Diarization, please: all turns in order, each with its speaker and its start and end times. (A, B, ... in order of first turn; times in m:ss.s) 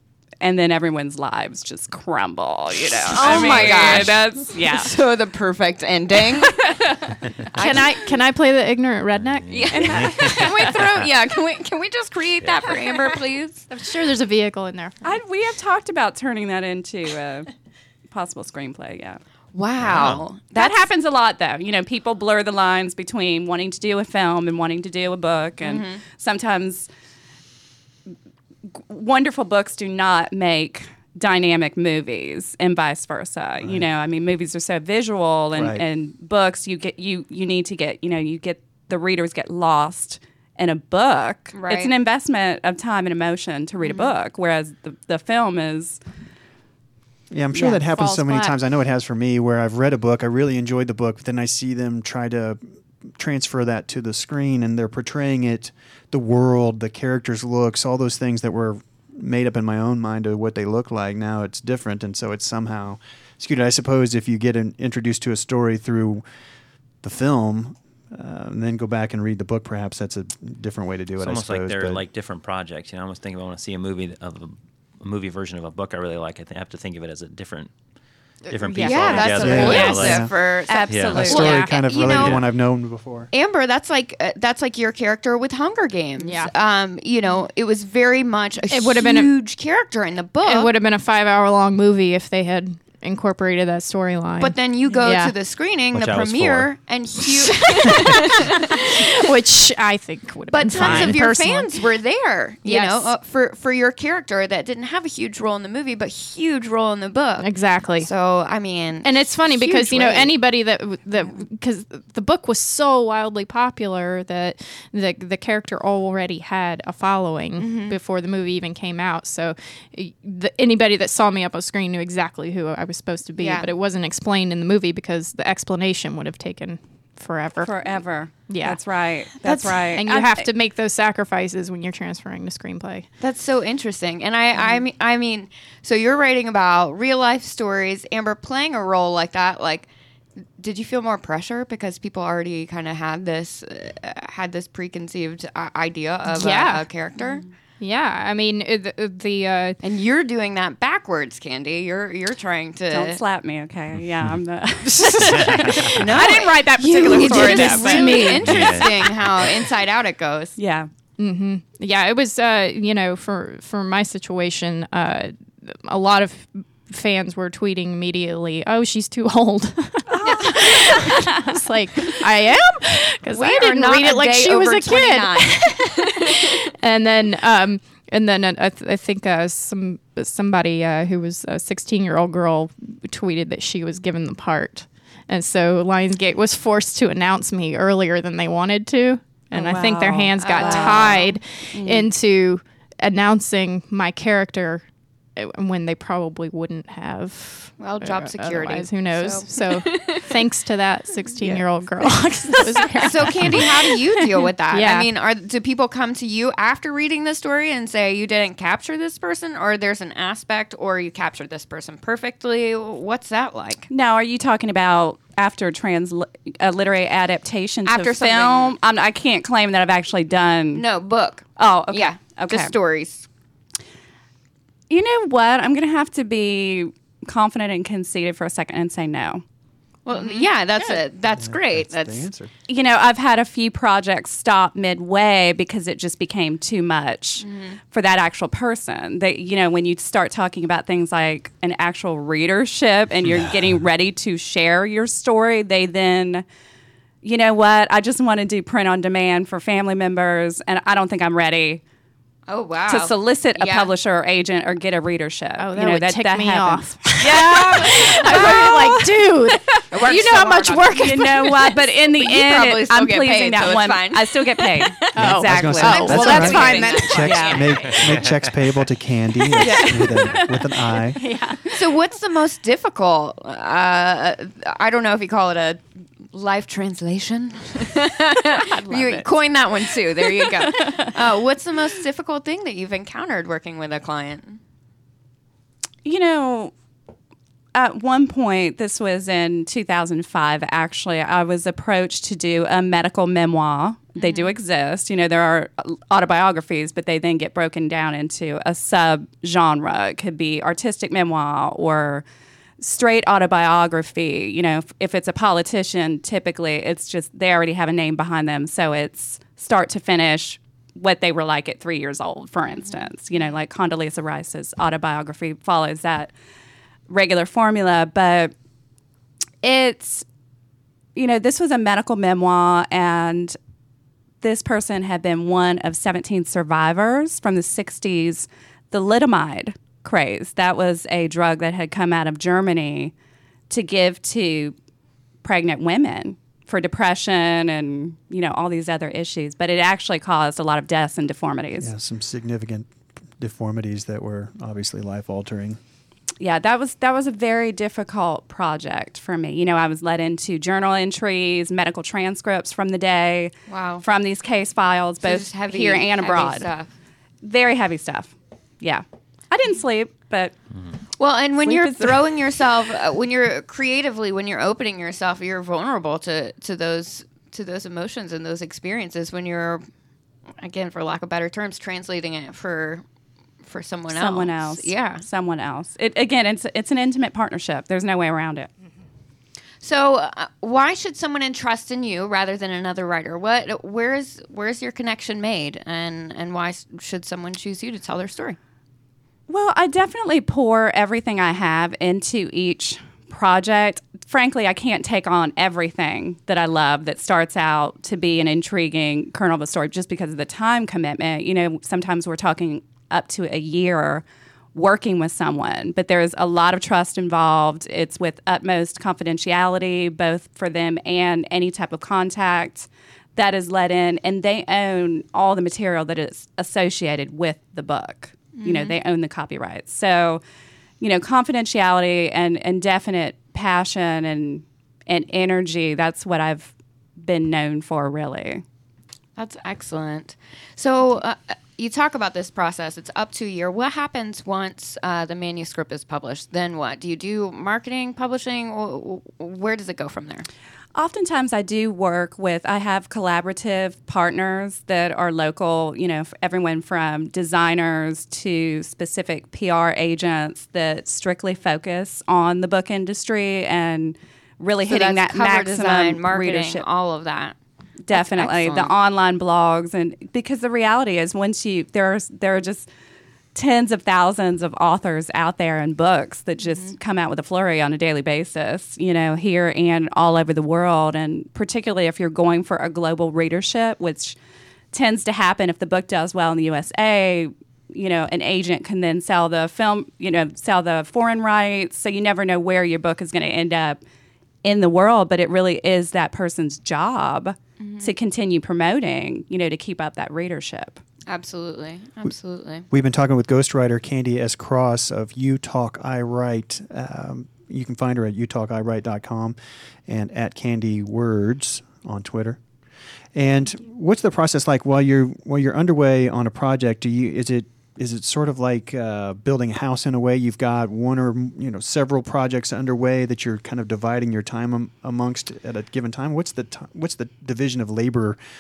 0:00.4-0:04.9 A
0:03.1-0:06.9 B
0:03.2-0:04.2 C
0:06.6-0:07.2 A
0:07.5-0:08.1 B
0:07.6-0:10.1 D
0:09.4-0:11.1 C
0:09.5-0:13.6 B
0:09.7-0:10.9 A
0:13.7-0:15.2 D
0:15.0-0:17.5 A
0:18.1-0:19.2 A
0:19.5-0:20.9 B
0:19.8-0:20.2 C
0:20.5-0:26.9 A
0:25.6-0:26.0 B
0:28.8-0:46.0 A
0:35.5-0:35.8 E
0:41.5-0:41.9 B
0:43.8-0:44.2 B
0:47.3-0:52.6 E
0:47.5-0:48.6 D
0:53.2-1:06.2 E
1:07.0-1:12.0 E
1:11.2-1:17.7 C
1:18.5-1:20.1 D
1:18.5-1:20.3 C
1:18.8-1:22.4 B
1:19.3-1:20.3 E
1:19.6-1:21.6 A
1:20.9-1:21.3 C
1:21.2-1:23.3 E
1:21.3-1:21.8 D
1:22.0-1:22.4 C
1:23.3-1:30.7 B
1:26.2-1:26.5 D
1:28.7-1:29.3 D
1:30.4-1:35.3 D
1:34.4-1:39.2 B
1:35.9-1:36.7 C
1:37.4-1:41.7 D
1:40.5-1:50.4 B
1:40.8-1:41.1 C
1:42.6-1:43.1 D
1:47.4-1:48.1 D
1:49.0-2:07.7 D
1:57.6-1:58.0 B
2:03.4-2:03.7 B
2:07.6-2:10.5 A
2:08.5-2:08.8 D
2:09.4-2:13.1 D
2:13.2-2:19.9 B
2:20.6-2:27.4 B
2:26.3-2:26.8 D
2:27.8-2:29.8 D
2:29.8-2:33.2 B
2:32.9-2:38.9 A
2:34.9-2:38.4 D
2:35.4-2:36.0 C
2:35.9-2:40.6 B
2:38.4-2:39.6 C
2:40.6-2:40.9 A
2:41.2-3:14.8 D
2:50.1-2:51.5 A
2:53.3-2:56.6 B
3:09.5-3:11.2 A
3:10.4-3:11.3 B
3:11.7-3:12.1 A
3:15.4-3:25.1 D
3:17.8-3:20.3 B
3:23.0-3:33.9 B
3:33.9-3:40.8 A
3:37.8-3:38.8 B
3:40.7-3:43.3 B
3:41.6-3:42.7 A
3:44.9-3:49.4 A
3:50.1-3:52.3 B
3:50.1-3:50.4 A
3:51.4-3:52.5 E
3:52.7-4:06.4 A
3:57.4-3:57.8 B
4:07.2-4:11.8 A
4:12.5-4:13.9 B
4:12.9-4:19.2 A
4:15.6-4:21.8 D
4:17.3-4:18.8 B
4:19.7-4:27.9 A
4:19.9-4:25.2 B
4:25.2-4:27.6 D
4:25.2-4:31.2 E
4:25.8-4:28.3 B
4:27.9-4:28.8 C
4:29.5-4:30.5 A
4:29.6-4:30.4 D
4:31.2-4:31.8 D
4:31.7-4:44.6 B
4:38.6-4:39.3 A
4:40.6-4:41.1 A
4:46.0-4:46.7 A
4:47.7-5:02.2 A
4:54.2-4:54.5 B
5:02.8-5:16.3 A
5:12.7-5:13.1 B
5:17.1-5:18.5 A
5:19.6-5:20.2 A
5:21.2-5:23.6 A
5:24.4-5:33.1 A
5:33.7-5:34.8 A
5:35.4-5:41.9 A
5:41.8-5:45.8 E
5:46.4-5:56.7 A
5:53.7-5:54.0 B
5:55.2-5:56.9 B
5:57.4-6:00.5 A
6:01.2-6:09.8 B
6:01.6-6:02.2 A
6:10.6-6:13.0 B
6:13.6-6:15.2 B
6:14.1-6:18.7 A
6:19.8-6:28.6 B
6:29.5-7:00.4 A
6:58.5-6:59.0 B
7:01.0-7:08.6 A
7:09.4-7:20.5 B
7:21.0-7:36.8 A
7:34.8-7:37.6 B
7:38.0-7:42.9 A
7:38.1-7:38.9 B
7:43.6-7:54.4 A
7:46.6-7:46.9 B
7:54.9-8:04.0 A
8:04.6-8:11.0 A
8:07.8-8:08.1 B
8:11.3-8:12.9 B
8:12.9-8:19.6 E
8:20.1-8:22.6 E
8:23.4-8:38.4 E